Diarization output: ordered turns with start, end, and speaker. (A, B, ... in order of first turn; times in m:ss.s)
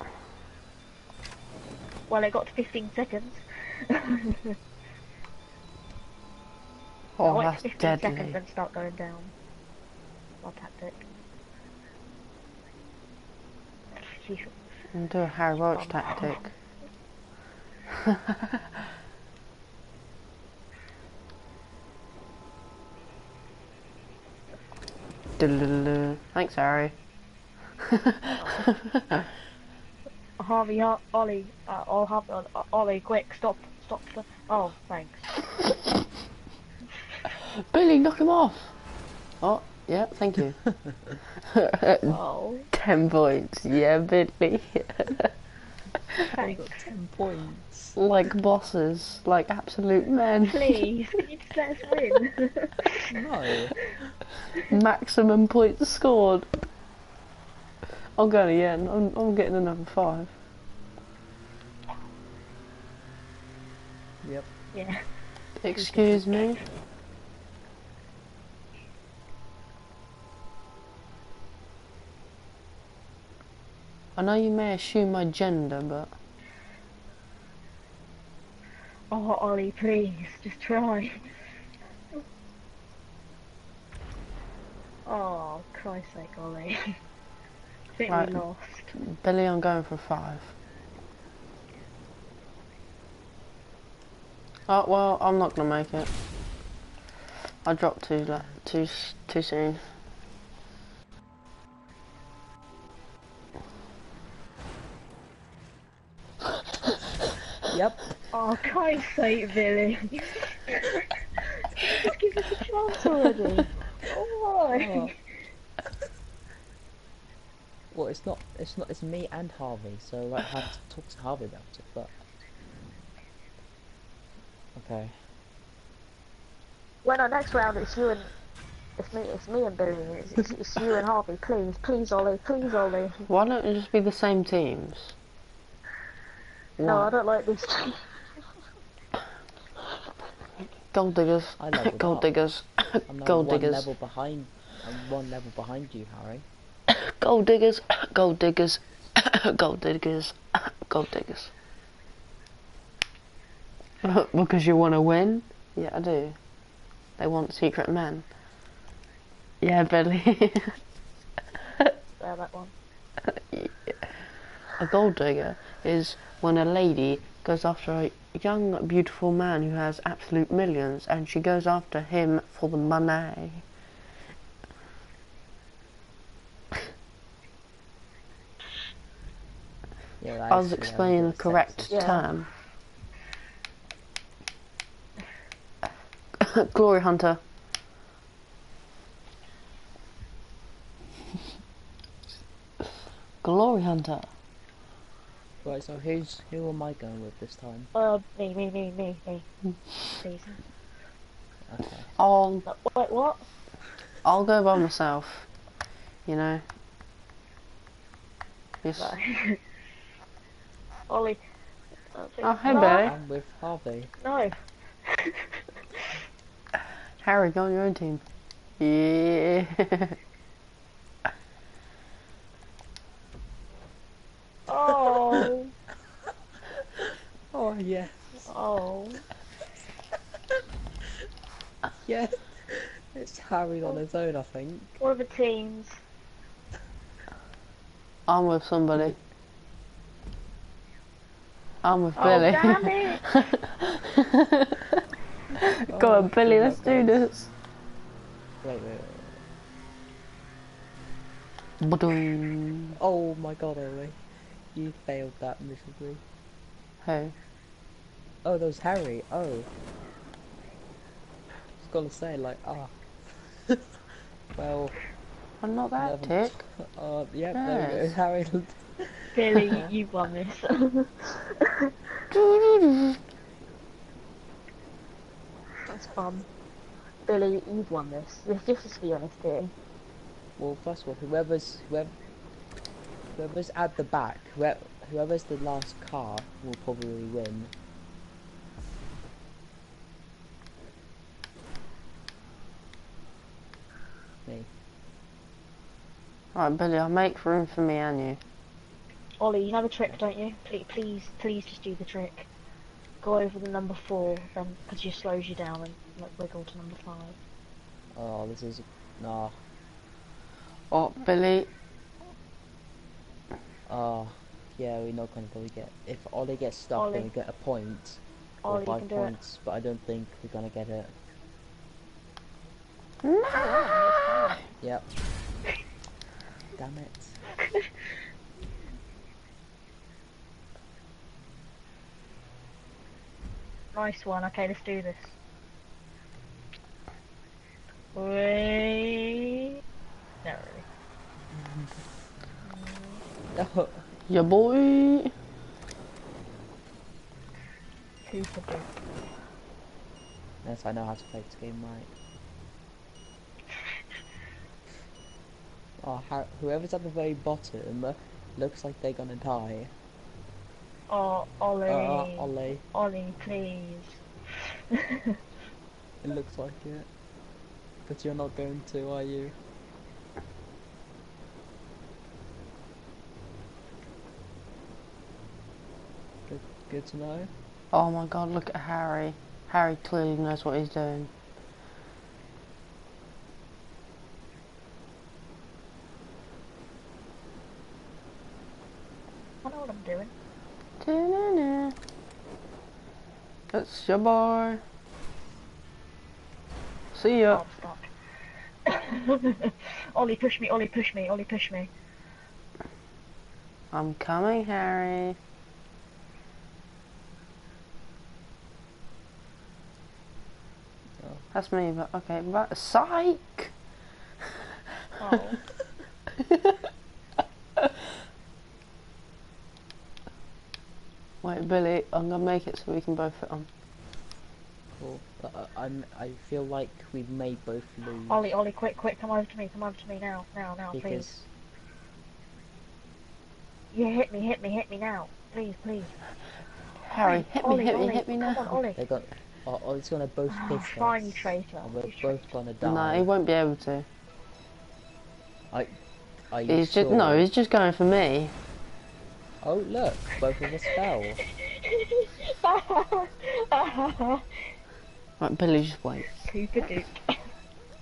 0:02.1-0:04.6 A
0:07.2-0:08.4 B
0:07.3-0:09.3 A
0:10.4-0:11.0 A
0:13.9-0:14.6 A
0:14.9-0:16.5 B
0:15.7-0:16.5 A
0:18.0-0:18.6 B
0:25.4-0:27.0 B
0:27.8-0:29.2 B
0:28.4-0:28.7 A
0:30.4-0:35.5 A
0:37.5-0:38.8 B
0:39.4-0:42.2 B
0:42.1-0:42.7 A
0:42.7-0:45.3 B
0:46.2-0:46.9 A
0:46.4-0:48.0 C
0:48.0-0:50.9 B
0:50.5-0:53.1 A
0:53.1-0:53.8 C
0:54.7-0:56.5 B
0:58.2-1:00.3 B
1:04.2-1:04.5 C
1:04.7-1:05.1 A
1:05.6-1:06.6 B
1:05.7-1:06.6 A
1:14.2-1:16.1 B
1:19.1-1:21.5 A
1:25.1-1:27.0 A
1:28.0-1:28.9 A
1:28.1-1:28.4 B
1:28.9-1:30.5 B
1:34.7-1:36.1 B
1:37.6-1:40.0 B
1:47.7-1:48.0 C
1:48.3-1:51.0 A
1:51.6-1:55.5 A
1:54.7-1:55.1 C
1:57.9-2:02.1 C
2:04.8-2:05.2 C
2:07.0-2:08.3 A
2:09.0-2:13.2 A
2:13.3-2:15.2 B
2:16.8-2:17.1 B
2:16.8-2:18.4 A
2:20.9-2:23.9 B
2:21.6-2:22.3 C
2:23.1-2:26.5 C
2:27.0-2:31.5 B
2:34.0-2:36.4 B
2:37.2-2:38.3 B
2:39.6-2:40.8 B
2:42.2-2:42.7 A
2:43.3-2:44.2 B
2:44.8-2:53.7 B
3:00.2-3:02.2 C
3:00.5-3:02.5 B
3:01.9-3:02.2 A
3:06.4-3:07.4 B
3:13.4-3:14.3 B
3:15.6-3:17.9 C
3:17.9-3:19.5 A
3:20.0-3:20.6 A
3:21.7-3:22.1 C
3:22.2-3:22.6 B
3:22.7-3:23.5 A
3:24.2-3:25.5 B
3:26.2-3:26.6 B
3:28.8-3:29.2 B
3:29.0-3:29.6 A
3:31.1-3:31.4 A
3:32.1-3:33.1 A
3:32.4-3:33.1 B
3:32.7-3:34.1 C
3:34.2-3:36.0 A
3:37.2-3:38.2 B
3:38.8-3:40.2 B
3:44.7-3:45.7 A
3:46.8-3:48.5 C
3:48.5-3:49.2 A
3:52.0-3:55.0 C
3:55.0-3:56.0 A
3:58.3-3:59.2 B
4:01.8-4:04.2 B
4:02.2-4:03.4 A
4:05.8-4:07.5 B
4:05.8-4:07.3 C
4:08.6-4:09.4 C
4:11.8-4:13.0 B
4:13.0-4:14.2 C
4:14.7-4:16.2 C
4:17.0-4:17.3 B
4:18.4-4:19.7 C
4:21.8-4:24.0 C
4:24.5-4:25.0 C
4:25.6-4:26.6 B
4:26.0-4:29.9 C
4:27.6-4:28.2 B
4:29.3-4:31.9 A
4:32.3-4:33.2 B
4:35.8-4:36.5 A
4:37.3-4:39.7 A
4:40.6-4:42.1 C
4:43.3-4:47.7 C
4:56.5-4:58.4 B
4:59.4-5:02.5 A
5:03.2-5:07.4 A
5:08.1-5:09.6 C
5:10.9-5:11.7 B
5:13.9-5:21.1 C
5:17.0-5:17.3 A
5:18.6-5:19.3 A
5:23.2-5:24.0 B
5:23.5-5:24.7 A
5:24.8-5:25.1 C
5:26.8-5:27.4 C
5:33.9-5:35.4 A
5:38.2-5:39.6 A
5:40.4-5:40.8 A
5:41.5-5:42.0 C
5:42.6-5:43.2 A
5:43.5-5:44.1 C
5:44.3-5:45.3 B
5:48.3-5:48.9 A
5:50.6-5:52.1 C
5:56.0-5:59.9 C
6:01.1-6:05.4 A
6:01.9-6:02.8 C
6:06.2-6:07.1 C
6:08.1-6:09.6 C
6:16.5-6:17.5 C
6:17.9-6:21.3 B
6:29.6-6:30.3 A
6:31.0-6:32.0 B
6:33.7-6:34.8 B
6:37.1-6:37.6 B
6:37.5-6:38.1 A
6:38.8-6:41.9 A
6:43.9-6:45.4 B
6:51.2-6:51.4 C
6:51.5-6:53.7 B
6:55.2-6:55.6 A
7:01.4-7:03.7 B
7:05.0-7:08.5 C
7:08.3-7:11.3 A
7:10.9-7:11.5 C
7:13.9-7:16.2 A
7:17.0-7:18.8 B
7:17.2-7:19.0 A
7:19.0-7:23.3 C
7:20.5-7:22.4 A
7:22.8-7:24.1 B
7:25.7-7:26.0 C
7:26.5-7:27.5 C
7:26.7-7:28.6 B
7:29.6-7:31.4 C
7:31.8-7:34.6 A
7:35.4-7:36.4 B
7:36.3-7:37.5 A